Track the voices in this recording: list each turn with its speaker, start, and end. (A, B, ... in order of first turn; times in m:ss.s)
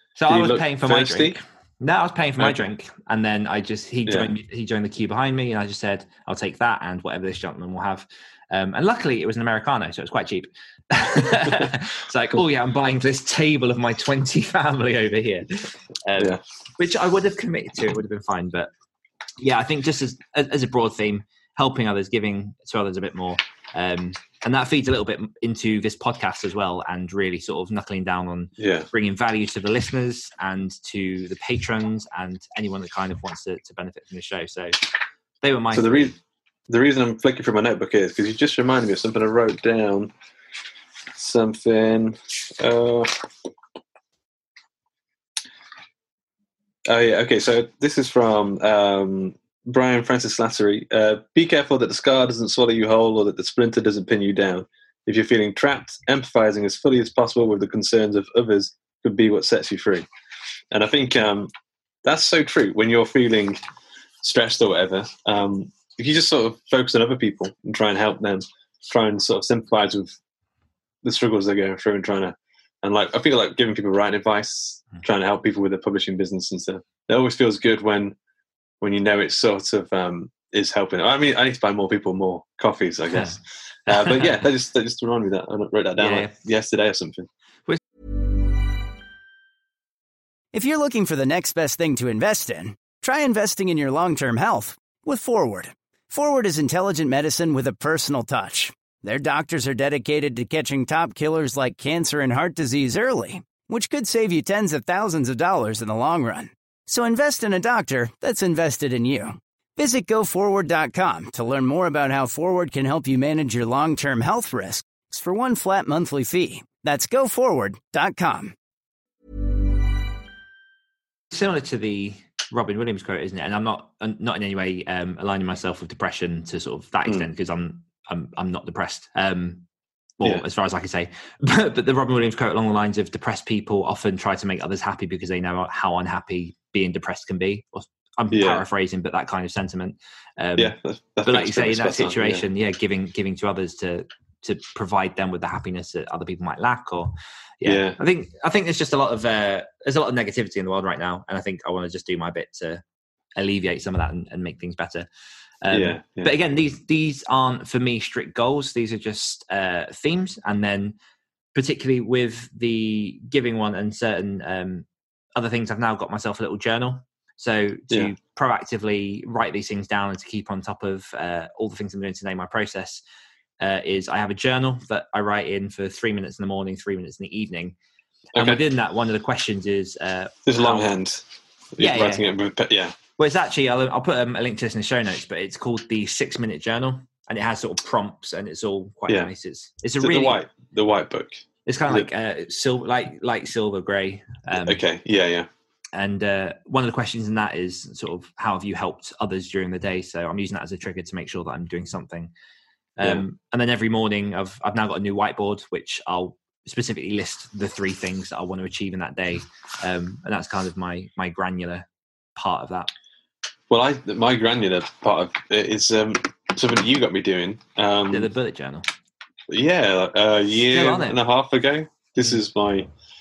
0:00.2-0:18.7 A
0:00.3-0:01.4 B
0:04.1-0:04.3 B
0:19.4-0:34.8 A
0:28.6-0:28.9 B
0:35.4-0:36.2 A
0:35.7-0:36.1 B
0:36.7-0:40.1 B
0:41.2-0:43.3 B
0:46.9-1:00.1 B
1:00.7-1:01.5 B
1:02.0-1:03.6 B
1:04.2-1:10.1 B
1:11.0-1:18.2 B
1:18.8-1:27.3 B
1:23.1-1:23.4 A
1:23.9-1:24.4 A
1:26.0-1:26.3 A
1:30.5-1:58.6 C
2:01.3-2:09.6 A
2:10.2-2:20.7 A
2:18.3-2:18.6 B
2:20.6-2:22.4 B
2:21.2-2:32.8 A
2:27.7-2:28.0 B
2:33.4-2:35.1 A
2:35.6-2:41.0 A
2:35.7-2:36.3 B
2:41.5-2:53.0 A
2:53.6-2:57.8 A
2:58.3-3:00.9 A
2:58.4-2:58.6 B
3:00.5-3:01.2 B
3:01.8-3:03.0 B
3:01.8-3:02.3 A
3:03.2-3:10.4 A
3:10.0-3:12.1 B
3:11.7-3:14.8 A
3:14.6-3:15.5 B
3:16.0-3:22.3 A
3:23.0-3:32.9 A
3:33.7-3:38.3 B
3:38.1-3:38.8 A
3:39.5-3:42.9 B
3:40.7-3:41.2 A